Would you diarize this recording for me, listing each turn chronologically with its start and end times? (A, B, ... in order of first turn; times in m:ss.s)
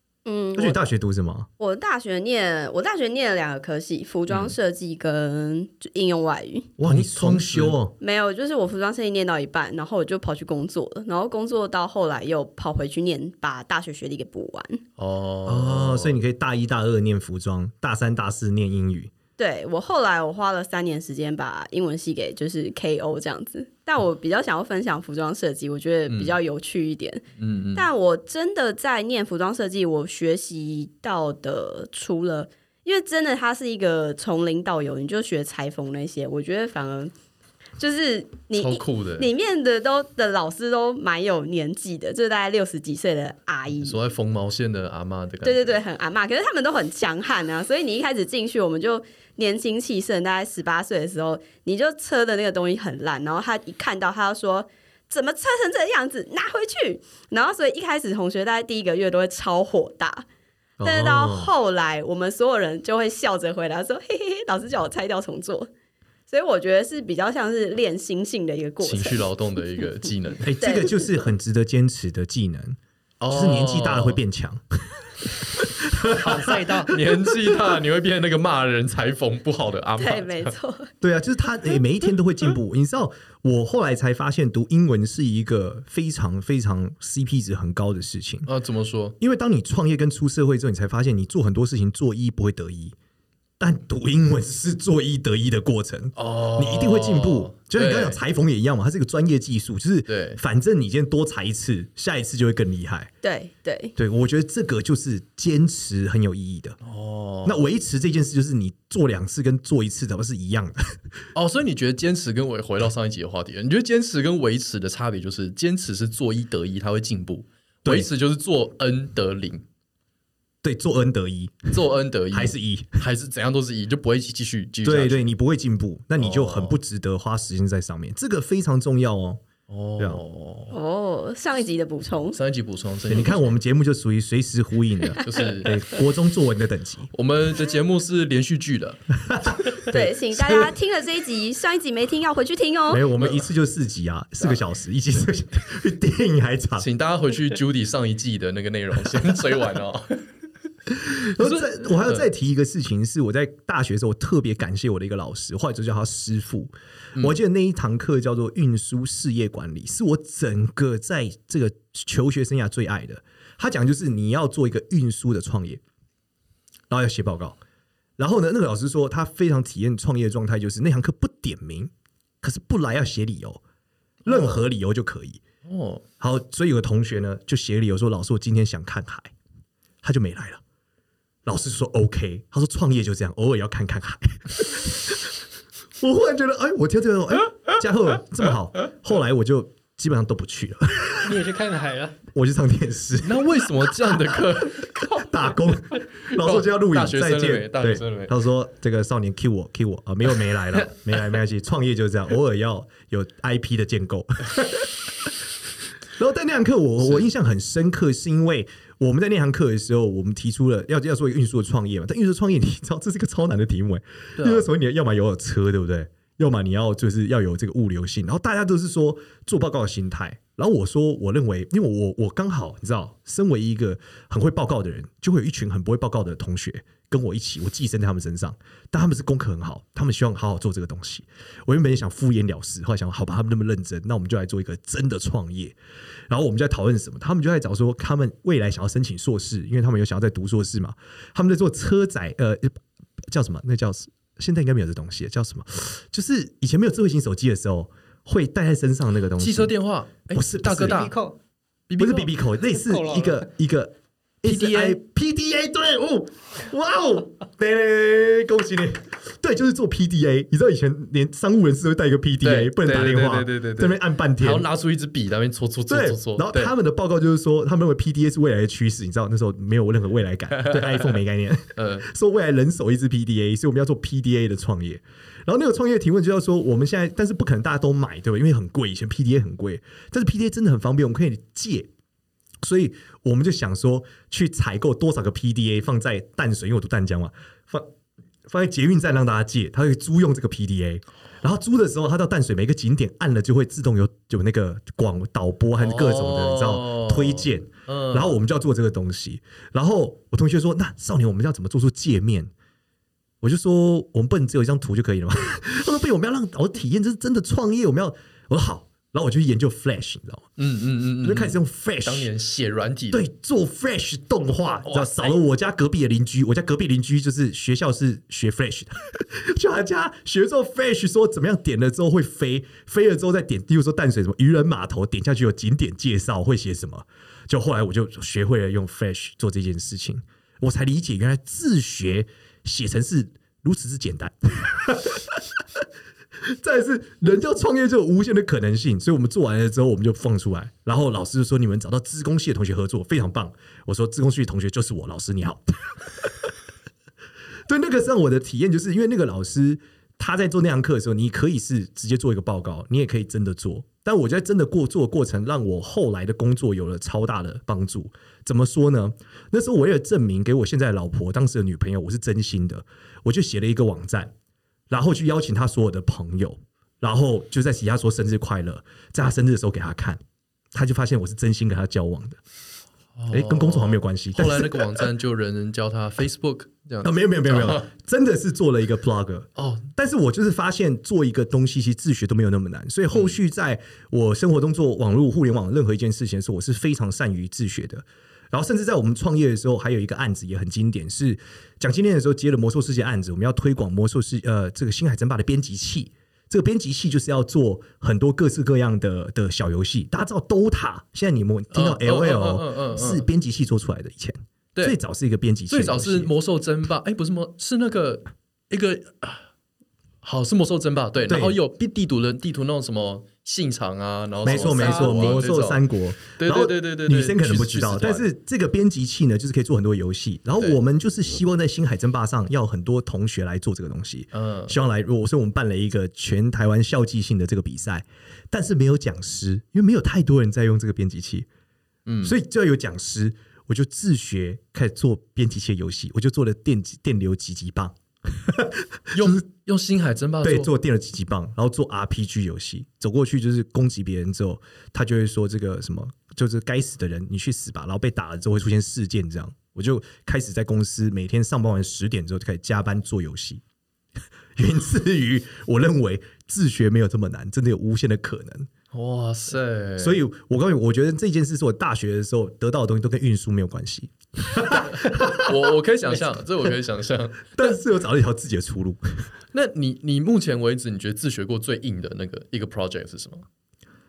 0:00.3-0:00.8 A
0:00.6-0:01.5 B
0:01.6-0:06.7 A
0:04.3-0:04.6 C
0:06.8-0:07.9 B
0:06.8-0:07.8 C
0:08.0-0:14.8 A
0:15.0-0:16.2 C
0:15.5-0:19.1 B
0:19.4-0:37.1 A
0:26.1-0:26.4 C
0:27.4-0:27.9 C
0:37.8-0:44.0 A
0:38.5-0:39.3 C
0:43.8-0:45.8 C
0:45.4-1:00.3 A
1:00.8-1:05.7 A
1:00.8-1:01.5 B
1:01.0-1:01.4 C
1:06.3-1:09.2 A
1:08.8-1:10.5 C
1:10.4-1:16.6 B
1:10.6-1:11.1 A
1:13.2-1:14.2 C
1:16.1-1:17.0 D
1:16.9-1:20.6 C
1:20.0-1:20.9 A
1:21.0-1:28.5 B
1:28.5-1:29.2 C
1:29.2-1:33.0 B
1:33.6-1:43.1 B
1:36.2-1:38.2 C
1:40.1-1:40.4 C
1:43.2-1:43.9 A
1:44.0-1:46.8 B
1:46.8-1:47.6 C
1:47.4-1:51.0 B
1:51.3-1:59.6 C
1:57.8-1:58.1 B
2:00.6-2:03.0 B
2:01.7-2:05.2 C
2:04.8-2:09.4 B
2:06.2-2:06.8 C
2:09.7-2:10.8 C
2:10.7-2:12.4 A
2:12.4-2:13.4 C
2:13.1-2:17.1 B
2:15.2-2:15.8 C
2:17.1-2:19.0 C
2:19.2-2:20.0 B
2:19.9-2:23.0 A
2:19.9-2:20.7 C
2:22.9-2:26.9 B
2:23.2-2:23.5 C
2:26.8-2:30.2 C
2:30.9-2:45.8 B
2:31.4-2:32.2 C
2:46.9-2:47.6 B
2:48.2-2:53.6 B
2:54.2-2:55.4 B
2:55.6-2:56.0 C
2:56.2-2:59.3 B
3:00.0-3:00.6 B
3:01.4-3:05.3 B
3:06.0-3:11.4 B
3:11.2-3:12.2 D
3:12.3-3:25.3 B
3:13.2-3:15.4 C
3:16.2-3:18.3 C
3:26.2-3:55.8 B
3:27.0-3:27.3 C
3:34.4-3:34.7 C
3:56.3-4:09.7 B
4:09.4-4:11.2 C
4:10.3-4:11.1 B
4:10.8-4:11.4 D
4:11.9-4:12.3 C
4:12.0-4:24.7 B
4:12.7-4:13.5 D
4:14.4-4:15.0 C
4:22.4-4:26.7 C
4:25.9-4:41.9 B
4:30.7-4:31.0 C
4:31.8-4:32.1 C
4:42.6-4:47.9 B
4:48.5-5:02.5 B
4:55.8-4:58.4 C
5:03.4-5:10.5 B
5:10.6-5:13.2 C
5:11.2-5:12.3 B
5:13.1-5:35.6 B
5:14.8-5:15.4 C
5:36.4-5:46.5 B
5:47.7-6:04.3 B
6:04.9-6:10.2 B
6:10.7-6:12.4 B
6:13.2-6:17.9 C
6:13.3-6:15.1 B
6:17.0-6:46.3 B
6:19.6-6:19.9 C
6:23.1-6:23.4 C
6:41.7-6:43.3 C
6:45.7-6:49.5 C
6:50.2-6:58.3 C
6:51.3-6:51.6 B
6:54.4-7:11.5 B
6:54.7-6:55.3 D
7:04.3-7:04.8 C
7:12.1-7:12.4 C
7:12.2-7:19.4 B
7:19.1-7:20.7 C
7:20.4-7:33.6 B
7:34.6-7:38.7 B
7:38.9-7:40.2 C
7:40.0-7:45.8 B
7:44.7-7:47.8 C
7:47.6-7:49.3 B
7:49.5-7:53.4 C